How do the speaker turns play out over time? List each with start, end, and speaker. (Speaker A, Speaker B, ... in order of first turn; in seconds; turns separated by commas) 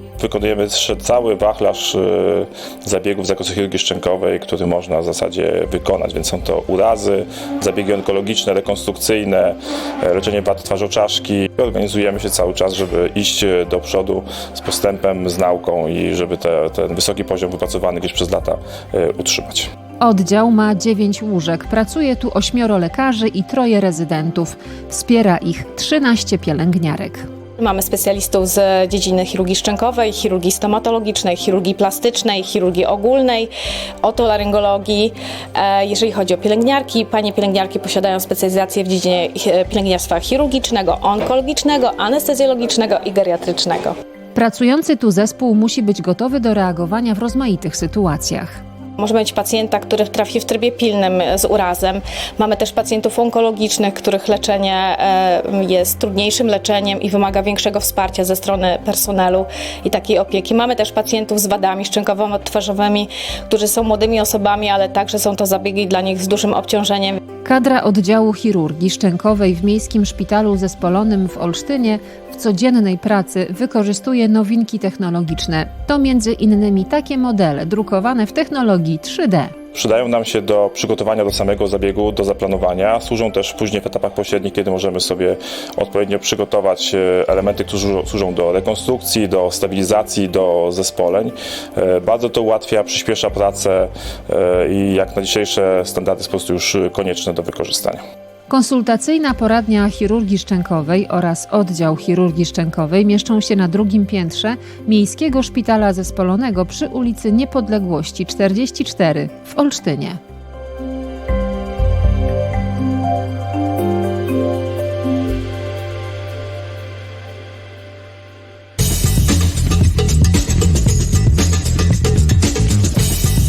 Speaker A: 0.2-19.7, Speaker B: 20.0-27.3, Speaker C: 27.6-33.5, Speaker C: 34.0-44.0, Speaker B: 44.4-48.6, Speaker C: 49.0-67.2, Speaker B: 67.4-79.5, Speaker A: 79.7-98.0, Speaker B: 98.5-110.2